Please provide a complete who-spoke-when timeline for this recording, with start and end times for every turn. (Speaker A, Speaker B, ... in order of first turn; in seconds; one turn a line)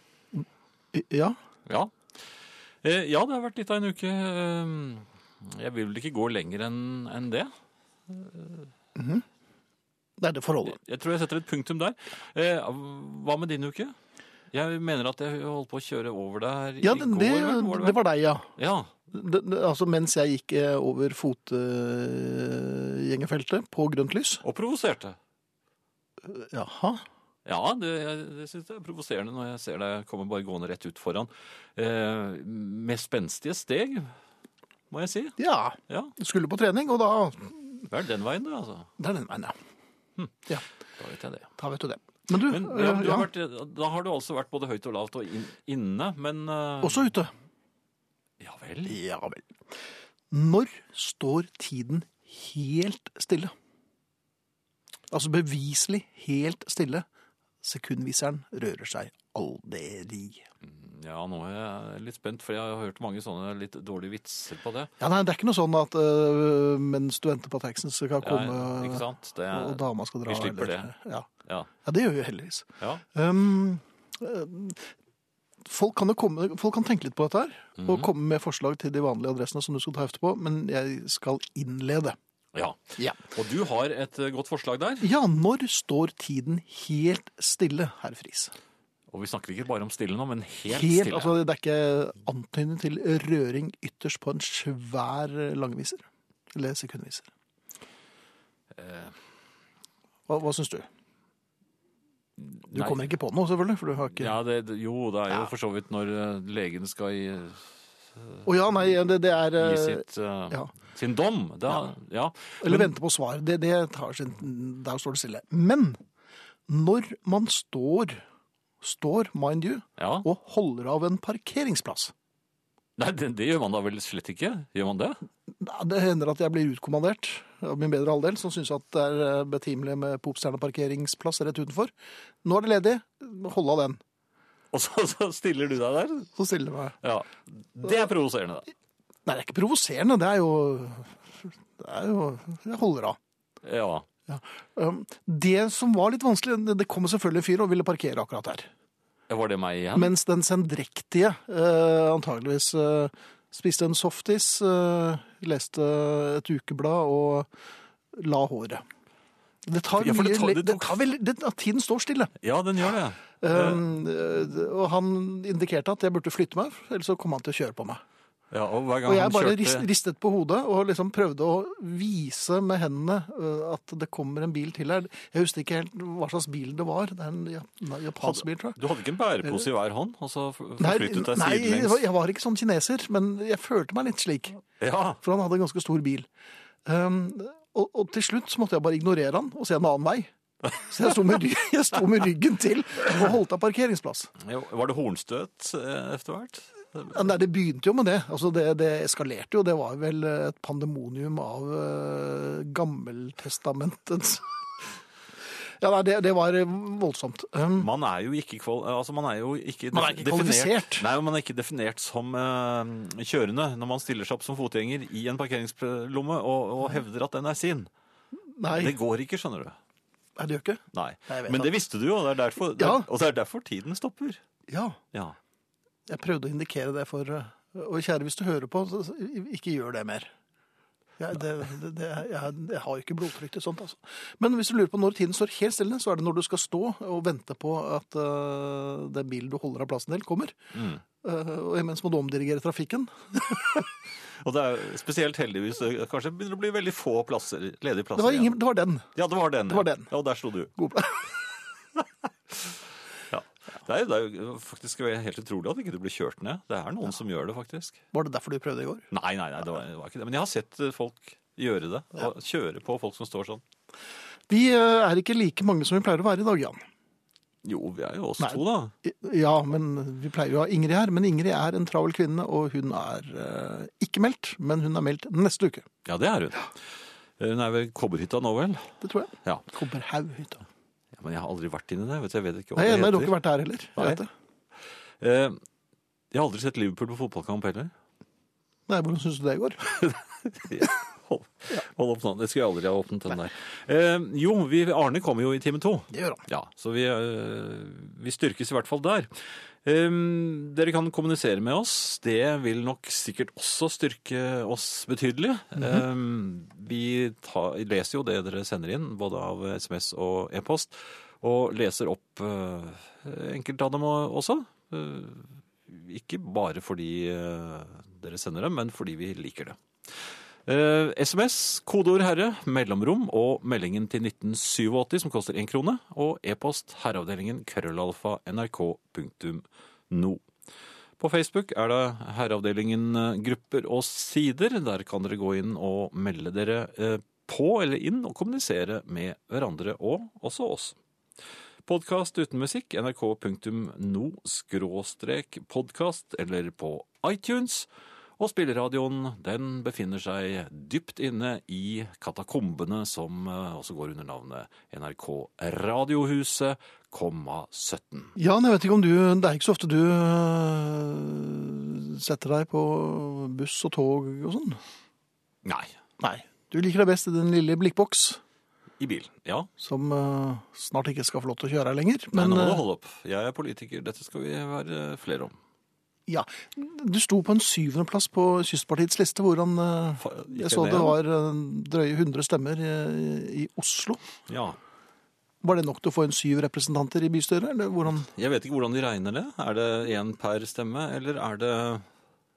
Speaker A: 0.3-1.4
Speaker B: 1.7-1.9
Speaker B: 2.8-7.5
Speaker B: 8.1-8.7
Speaker A: 9.0-9.2
Speaker A: 10.2-10.8
Speaker B: 10.7-14.0
Speaker B: 14.5-18.0
Speaker A: 16.8-18.5
Speaker B: 18.6-18.9
Speaker A: 19.1-24.4
Speaker B: 24.4-25.2
Speaker A: 26.3-27.1
Speaker B: 27.4-34.1
Speaker B: 34.9-35.4
Speaker A: 35.4-37.9
Speaker B: 35.9-36.1
Speaker B: 37.9-38.9
Speaker A: 39.0-39.6
Speaker B: 41.0-41.5
Speaker A: 41.6-43.3
Speaker B: 42.5-47.1
Speaker A: 46.8-47.3
Speaker B: 48.4-49.0
Speaker A: 48.9-49.5
Speaker A: 50.3-53.5
Speaker A: 55.1-57.0
Speaker A: 57.6-60.5
Speaker B: 60.6-64.9
Speaker A: 65.0-71.3
Speaker B: 68.2-70.9
Speaker A: 71.8-74.9
Speaker A: 75.7-82.2
Speaker B: 77.8-78.1
Speaker B: 82.5-85.1
Speaker A: 85.0-88.5
Speaker B: 89.1-91.4
Speaker A: 90.7-97.3
Speaker B: 98.7-99.2
Speaker A: 100.3-100.9
Speaker B: 102.6-103.0
Speaker A: 102.7-104.3
Speaker B: 104.1-108.4
Speaker A: 108.5-110.7
Speaker B: 109.6-112.9
Speaker A: 112.6-116.0
Speaker A: 116.7-118.2
Speaker A: 118.8-122.1
Speaker B: 120.0-120.3
Speaker B: 123.0-125.2
Speaker A: 125.5-131.9
Speaker A: 132.4-134.0
Speaker B: 134.7-136.3
Speaker A: 136.4-137.0
Speaker B: 137.0-138.7
Speaker A: 139.3-143.2
Speaker B: 143.6-144.1
Speaker A: 144.3-148.7
Speaker B: 149.3-150.1
Speaker A: 149.9-157.5
Speaker A: 158.1-158.8
Speaker A: 159.7-162.3
Speaker B: 160.0-161.0
Speaker B: 162.4-163.8
Speaker A: 163.4-168.0
Speaker B: 168.5-169.9
Speaker A: 169.1-178.8
Speaker B: 178.2-182.0
Speaker A: 180.8-184.6
Speaker B: 184.8-185.2
Speaker A: 185.2-186.3
Speaker A: 186.9-194.3
Speaker B: 194.4-197.3
Speaker A: 197.1-204.5
Speaker A: 205.8-207.9
Speaker B: 207.8-217.9
Speaker A: 209.9-211.1
Speaker A: 218.6-219.0
Speaker B: 218.7-219.8
Speaker A: 220.4-221.7
Speaker B: 220.9-224.4
Speaker A: 222.8-223.1
Speaker A: 224.7-225.0
Speaker A: 226.1-230.3
Speaker A: 231.2-240.6
Speaker B: 240.7-241.0
Speaker A: 241.2-243.8
Speaker B: 243.8-248.6
Speaker A: 248.2-249.1
Speaker B: 249.2-250.7
Speaker A: 249.7-250.1
Speaker A: 250.8-251.3
Speaker B: 252.0-258.0
Speaker A: 258.1-259.1
Speaker B: 259.1-263.6
Speaker A: 264.5-266.8
Speaker B: 267.6-268.9
Speaker A: 268.4-275.9
Speaker B: 276.1-276.7
Speaker B: 277.4-279.7
Speaker A: 279.0-280.6
Speaker B: 281.1-283.4
Speaker A: 282.8-284.3
Speaker B: 284.0-284.2
Speaker B: 285.2-285.6
Speaker B: 286.3-287.9
Speaker A: 288.9-289.8
Speaker B: 289.9-330.4
Speaker A: 296.1-296.4
Speaker B: 331.2-341.0
Speaker B: 341.9-358.3
Speaker A: 358.4-364.8
Speaker B: 365.6-366.0
Speaker A: 366.2-368.4
Speaker B: 369.0-369.7
Speaker A: 369.8-372.8
Speaker B: 372.3-375.6
Speaker A: 376.3-384.2
Speaker B: 380.2-381.2
Speaker B: 384.5-384.8
Speaker A: 385.6-388.3
Speaker B: 388.1-392.1